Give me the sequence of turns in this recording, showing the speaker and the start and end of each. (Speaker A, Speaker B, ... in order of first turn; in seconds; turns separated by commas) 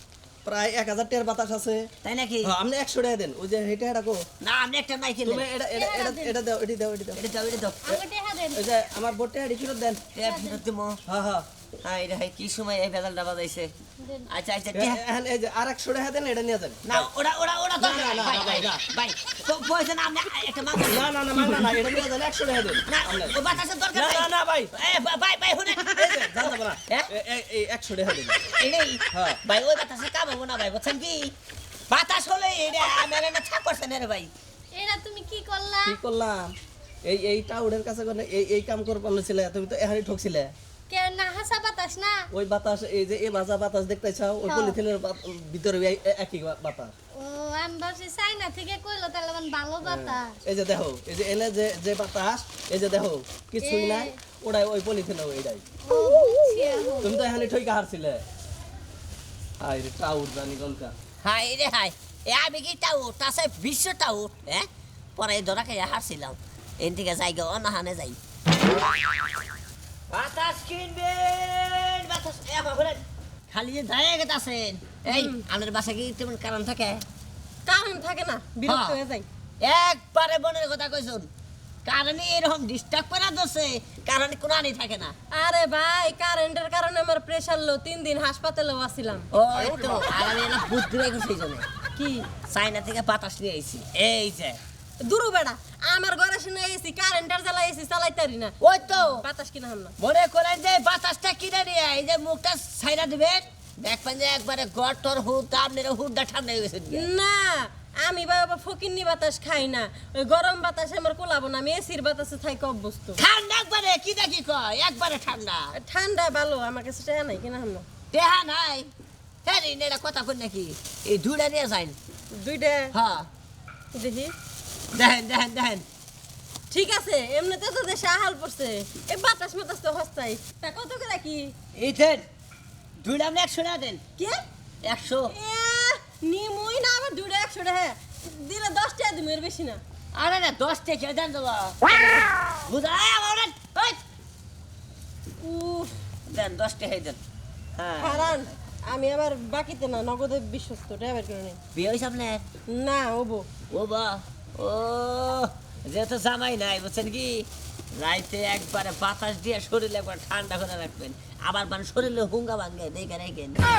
Speaker A: 0.5-1.9, Speaker B: 2.0-2.5, Speaker A: 2.4-4.2, Speaker B: 4.4-5.5, Speaker A: 5.2-7.2, Speaker C: 5.7-6.4, Speaker B: 7.2-7.9, Speaker C: 7.8-8.8, Speaker A: 8.6-10.1, Speaker B: 10.1-11.0, Speaker C: 10.2-10.6, Speaker A: 11.1-11.5, Speaker B: 11.8-13.7, Speaker C: 14.0-14.3, Speaker B: 14.3-15.0, Speaker A: 14.7-17.1, Speaker B: 16.9-21.6, Speaker A: 17.8-18.8, Speaker A: 20.9-23.4, Speaker B: 22.9-27.1, Speaker A: 23.9-24.7, Speaker A: 25.7-28.4, Speaker B: 28.5-31.3, Speaker A: 29.1-29.4, Speaker B: 31.9-34.3, Speaker C: 34.7-36.0, Speaker A: 35.9-36.5, Speaker A: 37.1-40.5, Speaker C: 40.9-42.2, Speaker A: 42.3-46.9, Speaker C: 44.5-44.8, Speaker C: 47.2-50.4, Speaker A: 49.8-55.6, Speaker C: 53.6-54.1, Speaker C: 55.8-57.2, Speaker A: 57.0-58.2, Speaker A: 59.6-60.9, Speaker B: 61.2-68.2, Speaker B: 70.1-77.0, Speaker D: 75.1-75.4, Speaker D: 77.7-79.3, Speaker B: 78.7-79.0, Speaker B: 79.6-81.3, Speaker B: 81.8-85.2, Speaker D: 85.3-89.3, Speaker B: 89.3-91.7, Speaker D: 92.0-92.3, Speaker B: 92.5-94.6, Speaker D: 95.0-99.9, Speaker B: 98.6-99.2, Speaker B: 100.0-107.1, Speaker D: 106.9-113.2, Speaker B: 113.2-115.7, Speaker D: 115.7-117.9, Speaker B: 118.1-118.9, Speaker B: 119.4-122.0, Speaker D: 122.3-122.9, Speaker B: 122.9-123.3, Speaker D: 124.0-124.3, Speaker B: 124.9-125.8, Speaker D: 126.7-131.5, Speaker B: 131.7-132.3, Speaker B: 133.0-134.0, Speaker B: 134.8-135.3, Speaker D: 135.3-139.8, Speaker B: 140.1-144.0, Speaker D: 145.4-145.9, Speaker B: 146.3-147.2, Speaker B: 147.8-148.3, Speaker D: 148.0-151.6, Speaker B: 151.8-152.4, Speaker D: 152.7-153.5, Speaker B: 153.7-163.6